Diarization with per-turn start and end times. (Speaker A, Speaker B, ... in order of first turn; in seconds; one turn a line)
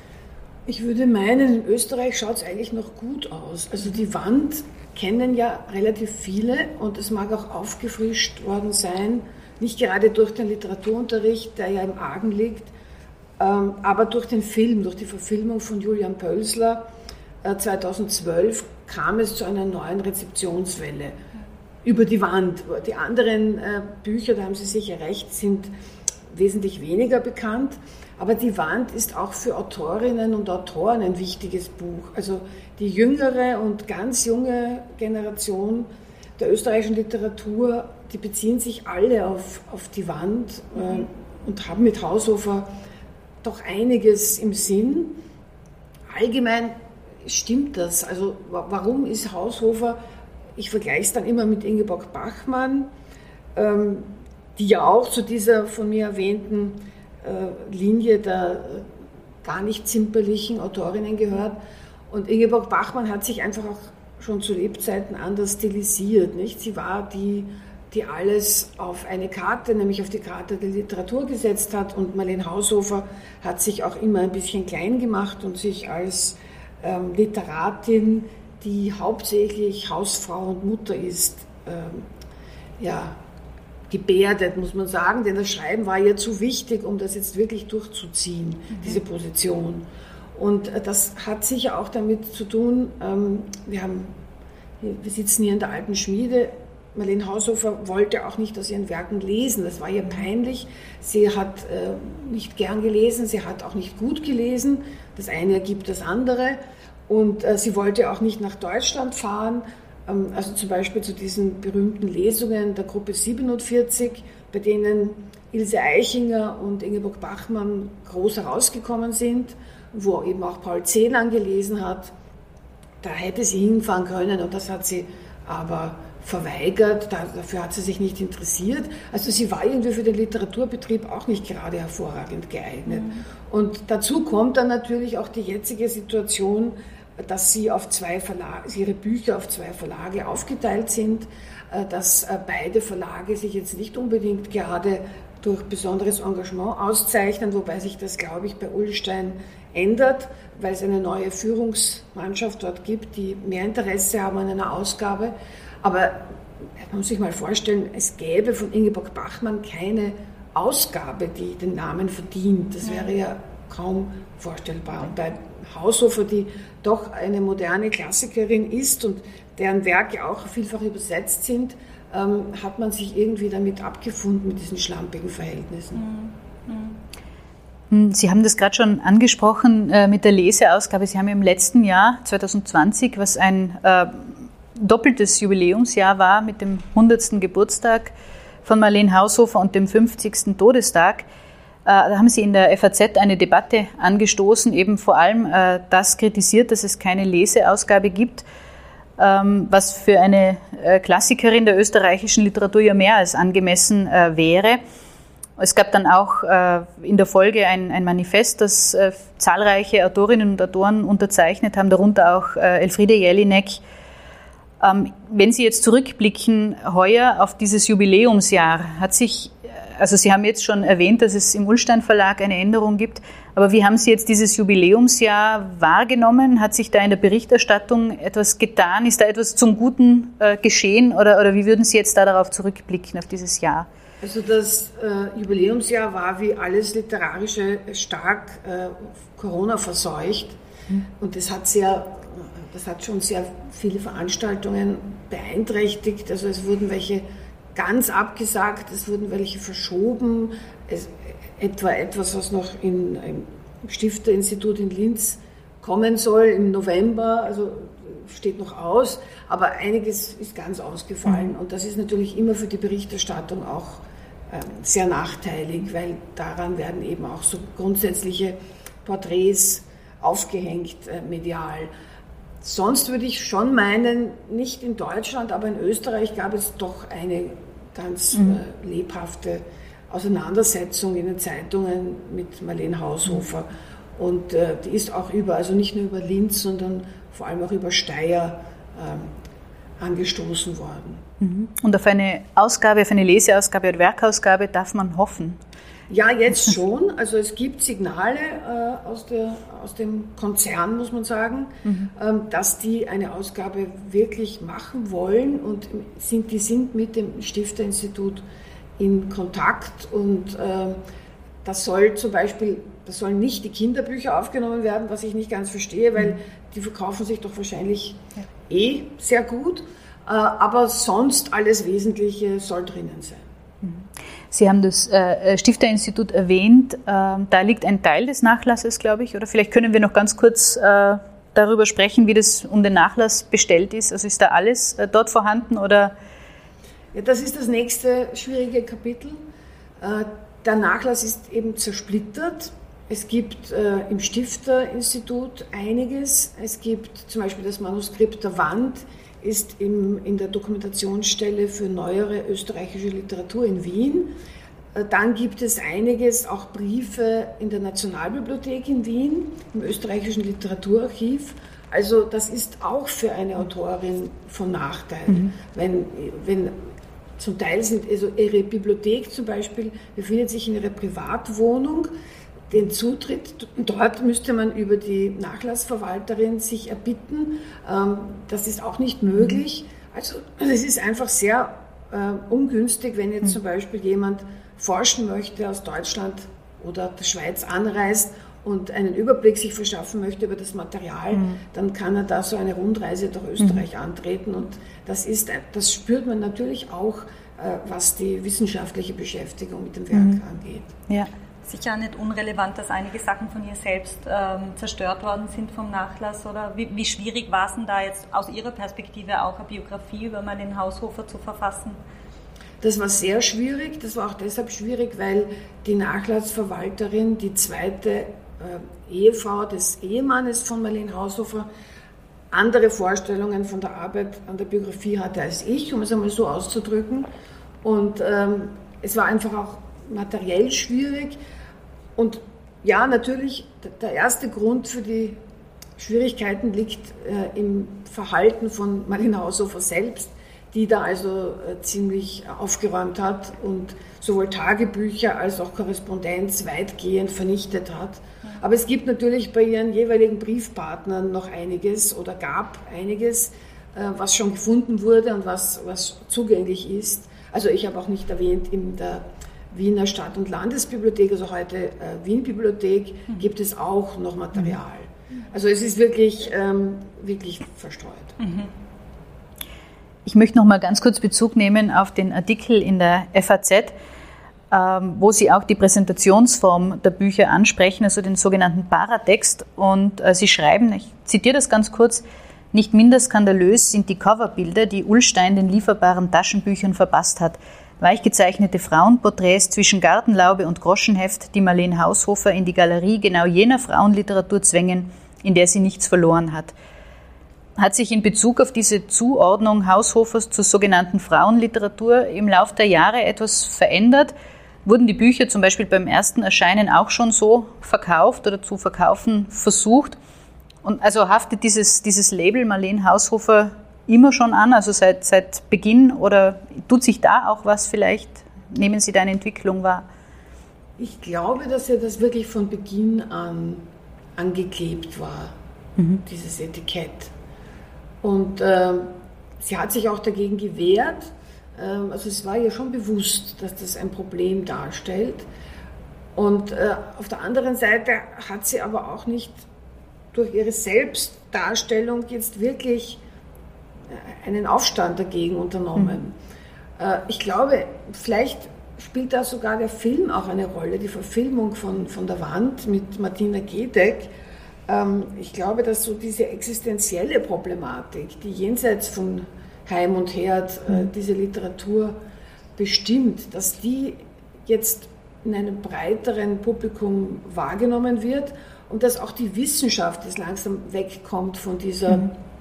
Speaker A: 0.7-12.7
Speaker A: 13.4-16.9
Speaker A: 17.4-21.2
Speaker A: 21.8-25.7
Speaker A: 26.3-42.7
Speaker A: 43.4-45.2
Speaker A: 46.1-50.0
Speaker A: 50.5-52.9
Speaker A: 53.5-58.9
Speaker A: 59.4-82.1
Speaker A: 82.8-83.2
Speaker A: 83.9-94.1
Speaker A: 94.8-122.1
Speaker A: 123.0-176.0
Speaker B: 132.9-133.2
Speaker B: 175.9-177.0
Speaker C: 177.9-188.1
Speaker C: 188.6-191.2
Speaker C: 191.8-198.4
Speaker C: 199.2-204.8
Speaker C: 205.6-213.8
Speaker C: 214.8-233.9
Speaker A: 234.2-240.6
Speaker A: 241.2-271.9
Speaker C: 261.2-261.5
Speaker A: 272.6-289.3
Speaker C: 278.3-278.6
Speaker A: 290.0-291.2
Speaker C: 291.4-295.6
Speaker A: 296.1-308.4
Speaker C: 301.9-302.1
Speaker A: 309.0-311.0
Speaker A: 311.6-323.4
Speaker C: 323.8-336.1
Speaker A: 337.1-339.4
Speaker A: 340.0-354.4
Speaker A: 354.9-366.9
Speaker C: 365.3-365.5
Speaker A: 367.4-372.1
Speaker A: 372.7-400.9
Speaker C: 391.3-391.6
Speaker C: 393.6-393.9
Speaker C: 400.1-400.4
Speaker B: 401.6-412.0
Speaker A: 412.8-421.7
Speaker A: 422.5-427.3
Speaker A: 427.8-431.4
Speaker A: 432.1-435.4
Speaker A: 436.0-468.3
Speaker B: 468.4-468.7
Speaker C: 470.2-473.9
Speaker C: 474.7-496.7
Speaker C: 497.8-504.3
Speaker C: 504.8-510.2
Speaker C: 510.8-520.1
Speaker A: 521.0-523.8
Speaker A: 524.4-525.5
Speaker C: 526.0-526.2
Speaker A: 526.2-527.3
Speaker A: 528.2-535.5
Speaker A: 536.4-539.6
Speaker A: 540.3-543.2
Speaker A: 544.1-546.3
Speaker A: 547.0-554.3
Speaker A: 554.9-562.2
Speaker A: 562.8-572.3